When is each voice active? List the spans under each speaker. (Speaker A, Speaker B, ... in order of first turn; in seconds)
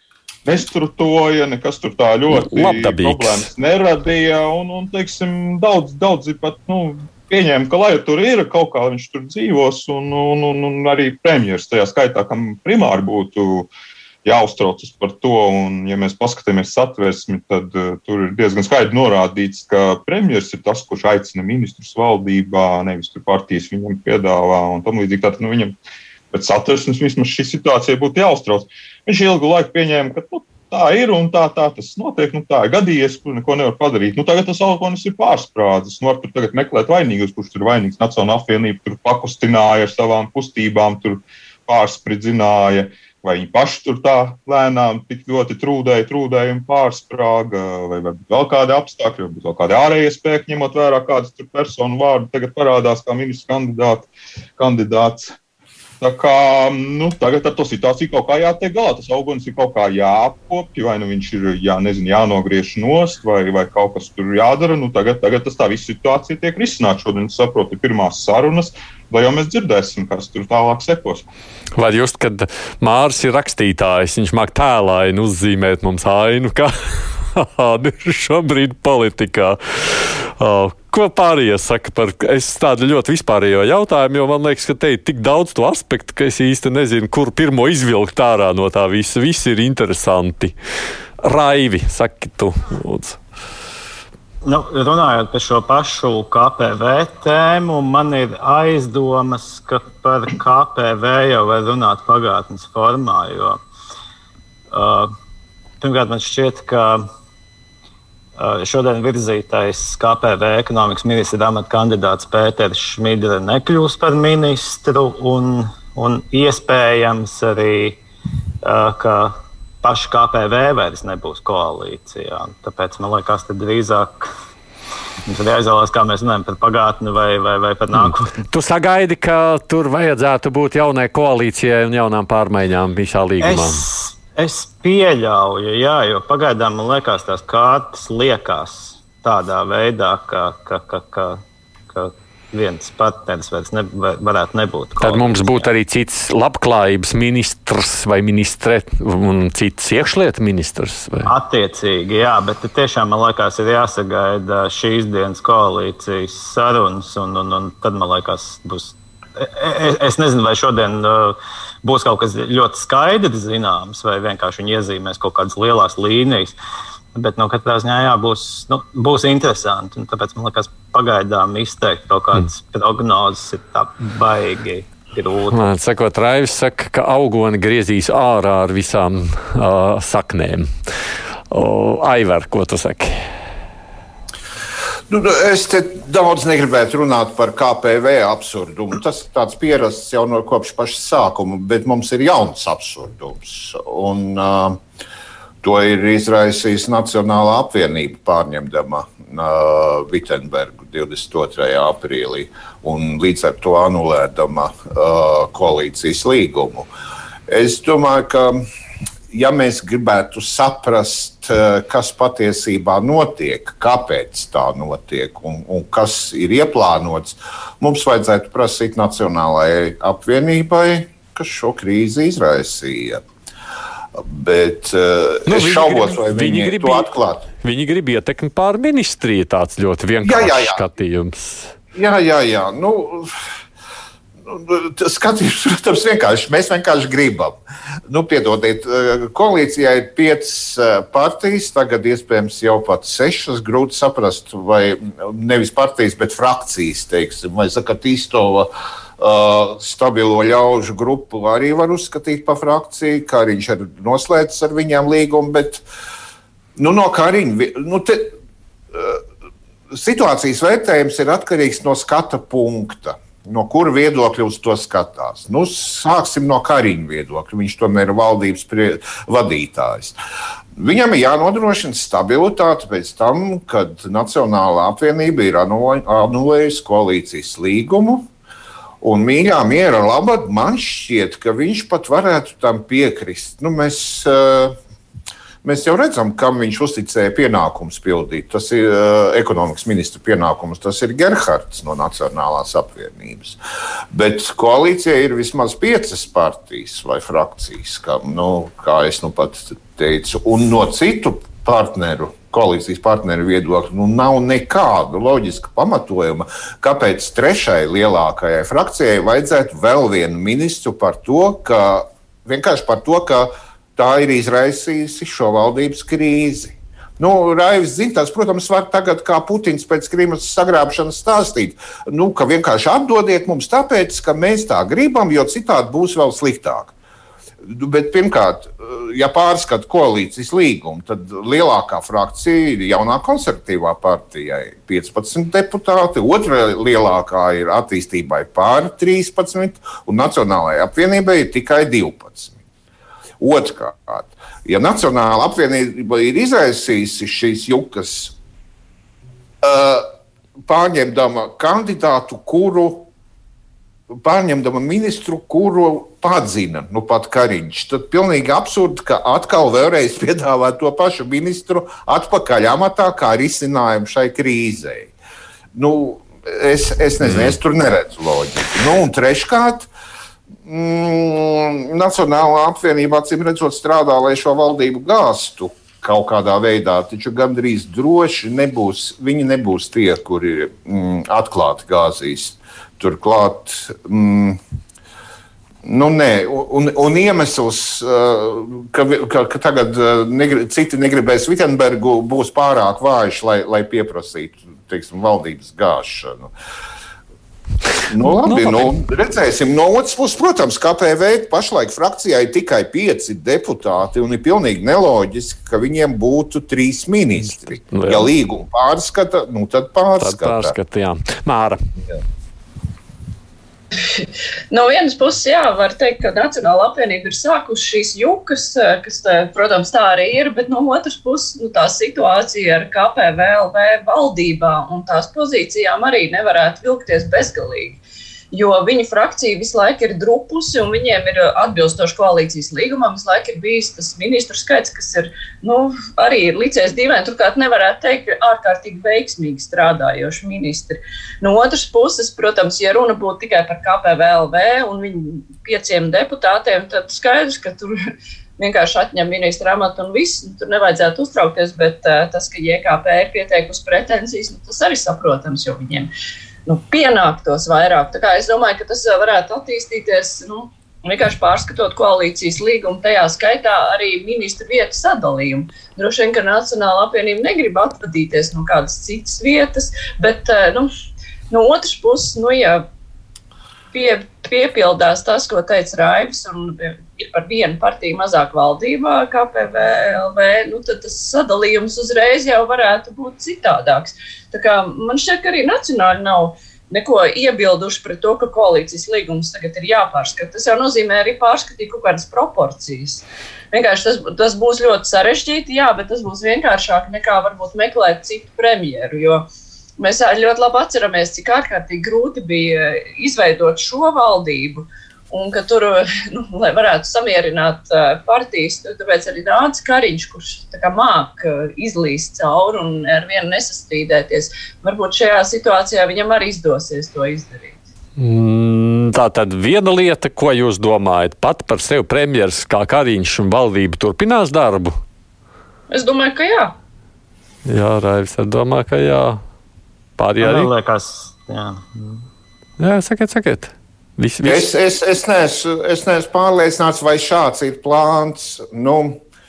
Speaker A: 0.4-13.7, 14.2-25.8, 26.3-55.3, 56.0-71.2
Speaker B: 2.3-3.5, 71.8-90.5, 91.2-93.2, 128.0-133.8, 145.0-151.3, 175.5-180.7, 181.5-183.2, 225.4-231.7, 398.4-398.9, 407.7-408.3, 410.2-411.9, 518.2-525.0, 527.6-529.4, 530.2-530.7, 532.8-534.6
Speaker C: 94.4-103.6, 104.7-105.1, 105.8-107.1, 108.4-118.0, 118.6-124.3, 125.2-128.3, 133.4-145.7, 151.2-166.5, 167.1-175.6, 530.4-532.2
Speaker D: 185.1-194.8, 195.6-206.9, 207.5-208.6, 209.3-223.2, 224.2-227.5, 230.2-230.8, 231.9-233.3, 234.4-237.6, 238.1-255.8, 256.8-258.3, 258.9-259.2, 259.9-270.2, 270.8-278.3, 279.0-284.8, 285.6-293.6, 294.1-326.9, 327.6-342.6, 343.4-348.4, 349.6-350.1, 350.7-353.1, 354.1-365.1, 365.7-369.9, 370.6-384.6, 385.8-396.5, 398.1-410.7, 534.4-539.2
Speaker E: 414.1-428.0, 428.5-447.9, 448.6-456.1, 456.6-470.9, 471.5-472.9, 473.9-499.4, 500.0-517.8, 525.9-526.7